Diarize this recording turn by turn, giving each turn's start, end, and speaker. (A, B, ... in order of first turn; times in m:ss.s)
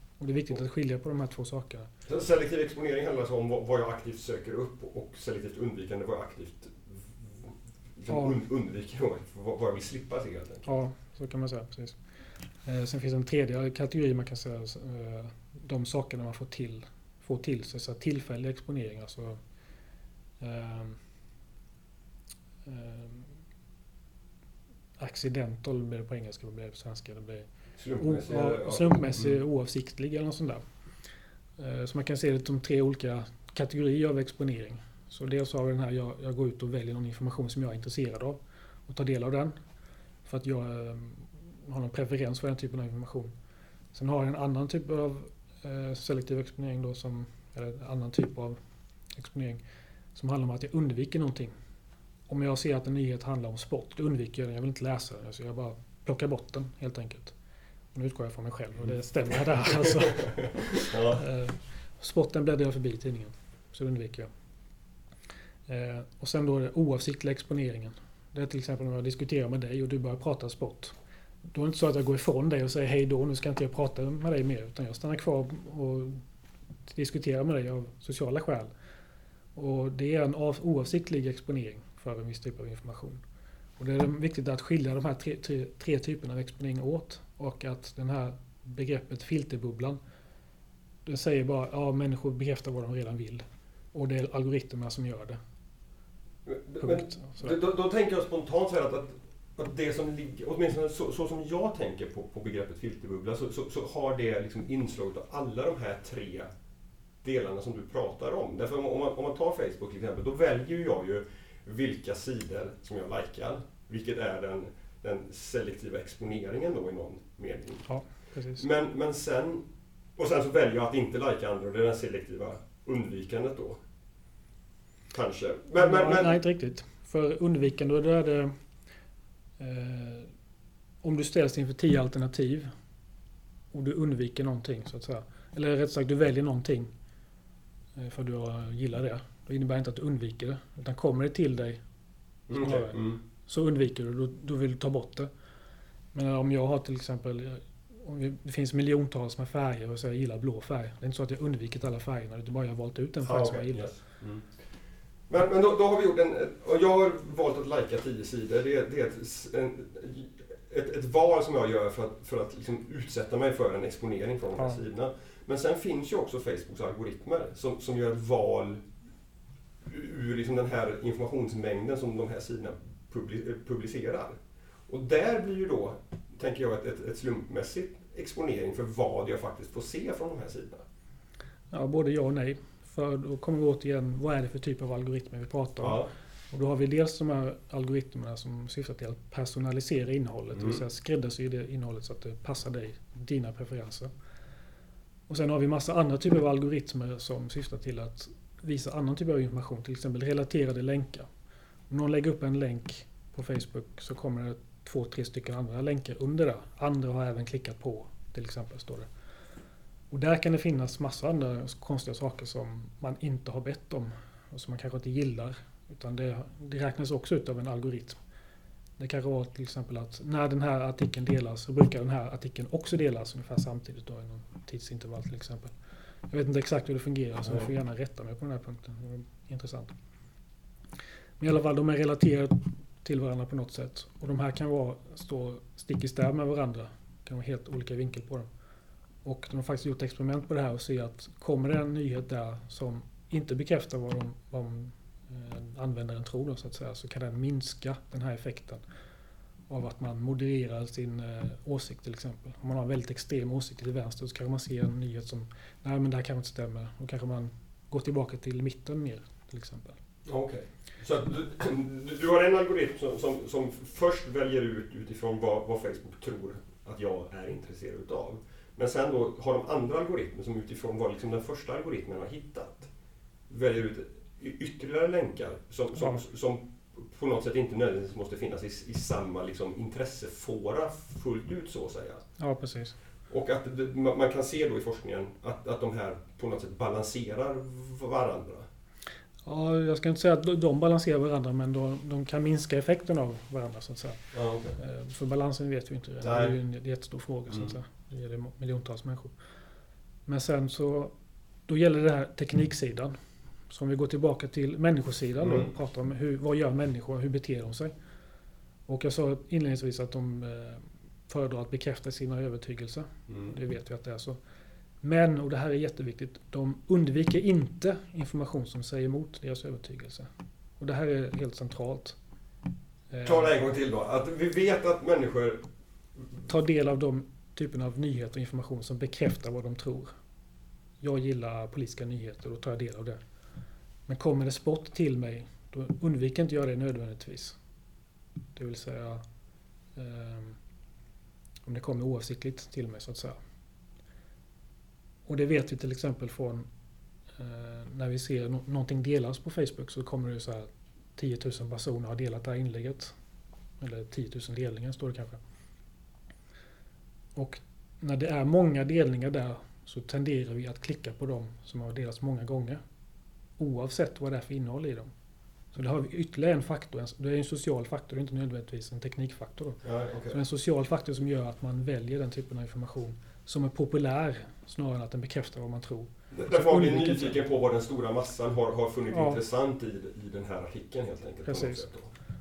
0:00.2-0:01.9 A
0:02.0-0:10.7 B
0:08.1-0:08.4 A
0:10.6-0:12.0 A
0:12.6-0:19.4 A
0:20.4-0:21.0 A
0:22.6-0:23.3 A
0:25.0-0:27.5 A
0:27.8-0:29.4 B
0:28.0-0:30.6 A
0:31.6-0:39.6 A
0:40.2-0:43.3 A
0:43.9-0:48.6 A
0:49.2-0:49.6 A
0:50.1-0:51.5 A
0:52.3-0:57.3 A
0:57.9-1:04.3 A
0:59.9-1:01.2 B
1:05.7-1:10.9 A
1:11.5-1:16.2 A
1:16.9-1:18.7 A
1:19.5-1:23.2 A
1:23.8-1:30.0 A
1:31.0-1:35.4 A
1:36.4-1:46.5 B
1:36.8-1:37.5 A
1:47.2-1:57.9 B
1:57.9-1:58.6 A
1:58.6-1:59.6 B
2:00.2-2:03.8 B
2:05.1-2:06.4 B
2:05.8-2:08.6 A
2:09.6-2:10.3 A
2:11.0-2:12.7 A
2:13.7-2:16.9 A
2:18.0-2:21.8 A
2:22.5-2:23.2 B
2:22.5-2:25.3 A
2:26.1-2:33.9 A
2:33.2-2:34.6 B
2:35.3-2:48.8 B
2:49.8-2:54.4 B
2:54.9-3:00.8 B
3:01.7-3:14.1 A
3:05.8-3:06.1 B
3:10.5-3:10.8 B
3:15.3-3:21.3 A
3:21.9-3:29.1 A
3:30.1-3:38.2 A
3:39.0-3:45.7 A
3:46.3-3:49.9 A
3:51.4-3:58.5 A
3:59.2-4:08.8 A
4:09.7-4:20.0 A
4:20.2-4:32.9 B
4:33.5-4:42.2 B
4:42.4-4:43.0 A
4:43.3-4:48.7 B
4:49.4-4:59.3 A
4:54.3-4:54.8 B
4:56.2-4:56.5 B
5:00.2-5:01.1 A
5:01.7-5:03.2 A
5:03.7-5:07.9 A
5:05.4-5:05.7 B
5:08.9-5:14.4 A
5:15.0-5:20.3 A
5:20.8-5:22.2 A
5:23.1-5:23.6 A
5:23.2-5:25.6 B
5:26.5-5:30.1 A
5:31.0-5:33.2 A
5:34.1-5:37.6 A
5:38.5-5:39.2 A
5:40.0-5:40.6 A
5:41.6-5:43.4 A
5:45.3-5:46.7 A
5:47.4-5:53.1 A
5:53.8-5:55.4 A
5:57.3-6:02.8 A
6:03.6-6:05.1 A
6:05.7-6:17.4 A
6:09.8-6:10.4 B
6:16.3-6:22.1 B
6:19.1-6:19.4 A
6:21.4-6:21.8 A